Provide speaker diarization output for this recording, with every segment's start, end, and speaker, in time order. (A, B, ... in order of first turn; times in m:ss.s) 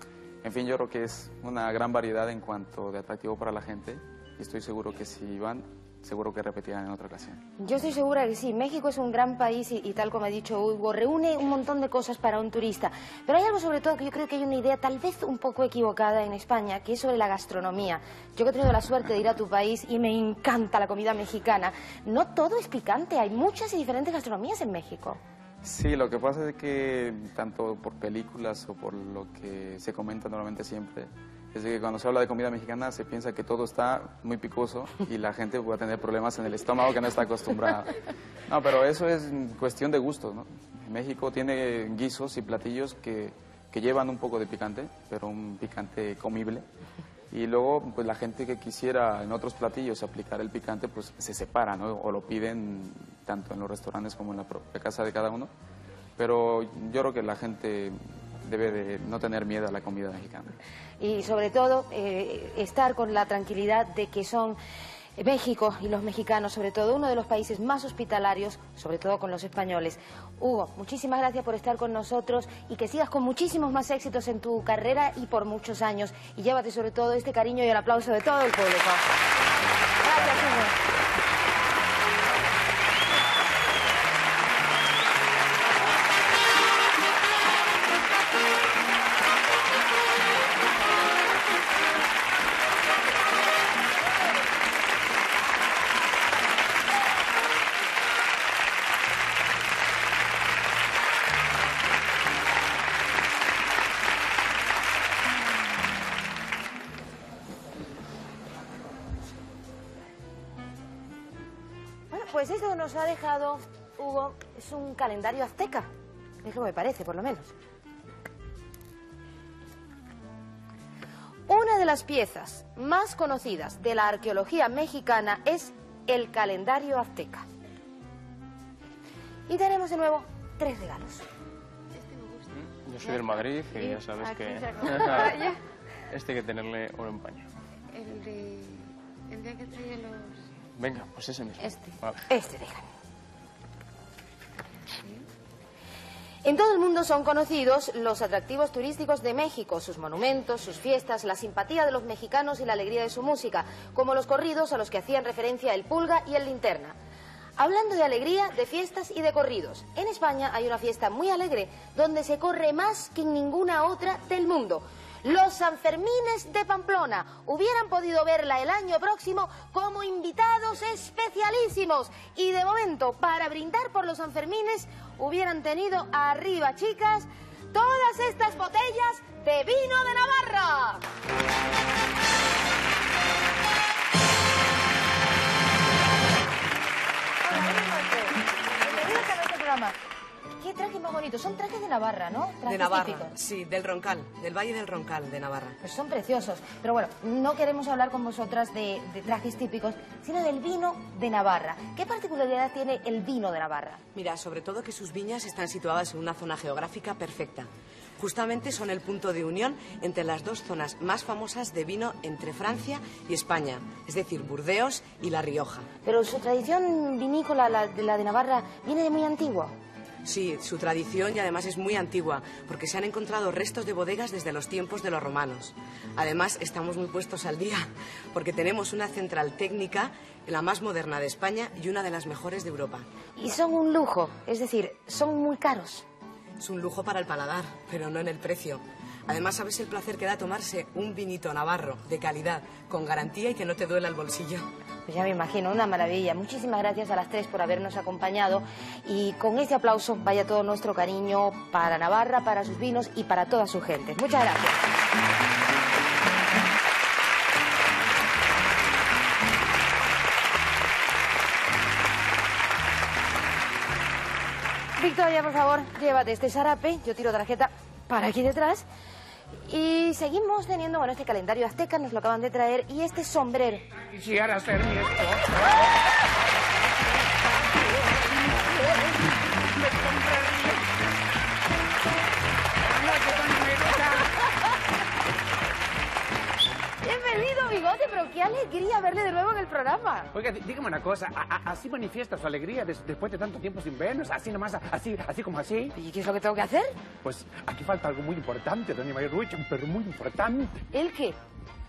0:00.4-0:07.4 A
0:07.6-0:25.2 B
0:25.6-0:46.6 A
0:47.3-0:55.5 A
0:56.2-1:00.6 A
1:01.0-1:04.6 B
1:05.2-1:19.0 B
1:20.0-1:20.7 B
1:52.1-1:55.9 B
1:56.4-1:57.5 B
2:01.5-2:07.4 B
2:09.5-2:11.2 B
2:11.9-2:15.6 C
2:12.5-2:15.5 D
2:16.1-2:17.5 D
2:17.9-2:20.4 C
2:20.8-2:22.2 D
2:21.6-2:22.0 C
2:22.3-2:22.8 B
2:26.4-2:36.9 B
2:37.6-3:01.0 B
3:07.4-3:10.0 B
3:10.6-3:13.3 B
3:12.6-3:15.8 E
3:15.8-3:24.0 B
3:24.1-3:35.8 E
3:36.0-3:39.7 B
3:40.2-3:53.0 E
3:53.4-3:56.0 B
3:56.6-4:04.7 E
4:05.1-4:14.9 B
4:25.0-4:28.9 B
4:29.6-4:33.8 B
4:34.1-4:35.8 F
4:37.8-4:40.8 F
4:42.8-4:44.3 F
4:47.0-4:50.3 B
4:50.3-4:55.9 F
4:55.9-4:56.9 B
4:57.2-5:00.8 F
5:00.9-5:01.4 B